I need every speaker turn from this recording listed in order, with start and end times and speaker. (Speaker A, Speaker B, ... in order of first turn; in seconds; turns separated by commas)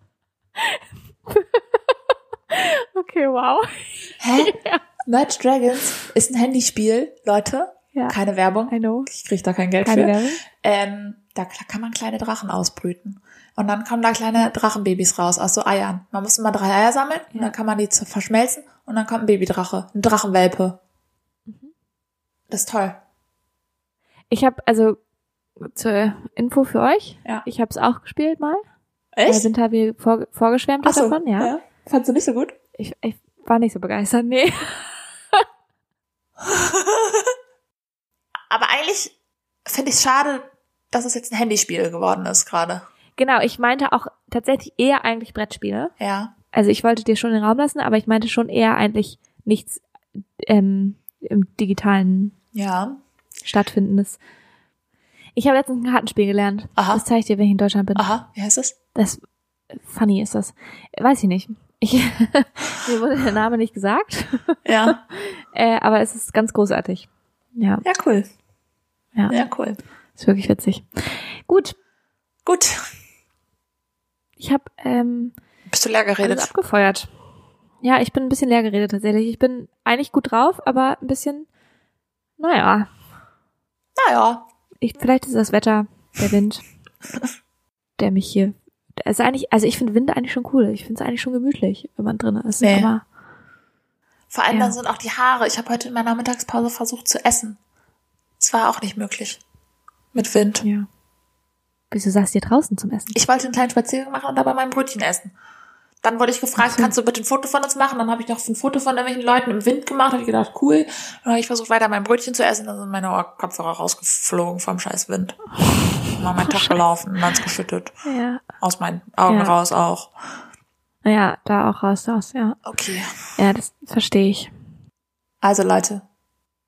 Speaker A: 0.6-1.9, Speaker A: 2.5-4.8, Speaker B: 4.2-20.8, Speaker A: 8.7-9.1, Speaker A: 9.8-10.4, Speaker B: 22.5-23.0, Speaker A: 24.3-25.0, Speaker A: 25.6-28.6, Speaker B: 29.1-29.5, Speaker A: 29.3-31.5, Speaker B: 30.8-32.6, Speaker A: 32.8-35.5, Speaker B: 36.4-37.3, Speaker B: 38.5-39.1, Speaker B: 39.7-42.8, Speaker A: 43.2-45.9, Speaker B: 46.0-46.3, Speaker A: 46.5-52.4, Speaker B: 52.5-53.0, Speaker A: 53.5-54.2, Speaker A: 55.4-58.1, Speaker B: 56.8-57.0, Speaker B: 58.0-58.8, Speaker A: 59.0-59.2, Speaker A: 59.7-67.8, Speaker B: 64.7-65.0, Speaker B: 67.8-68.3, Speaker B: 69.3-69.8, Speaker A: 70.2-71.8, Speaker B: 72.5-72.8, Speaker A: 74.4-75.4, Speaker B: 75.7-76.5, Speaker A: 76.2-77.1, Speaker A: 77.8-81.5, Speaker A: 82.4-82.9, Speaker B: 84.0-84.4, Speaker A: 84.8-86.6, Speaker A: 88.0-93.0, Speaker B: 92.6-92.9, Speaker B: 94.3-97.6, Speaker B: 98.4-99.4, Speaker B: 100.1-100.7, Speaker A: 100.6-100.9, Speaker A: 101.9-103.1, Speaker B: 103.1-105.3, Speaker B: 106.0-115.4, Speaker A: 106.6-106.9, Speaker B: 116.2-117.9, Speaker A: 116.5-116.8, Speaker A: 118.0-118.4, Speaker B: 118.6-120.1, Speaker A: 119.3-119.5, Speaker A: 121.0-122.6, Speaker B: 122.7-123.1, Speaker A: 123.4-124.5, Speaker B: 125.4-126.0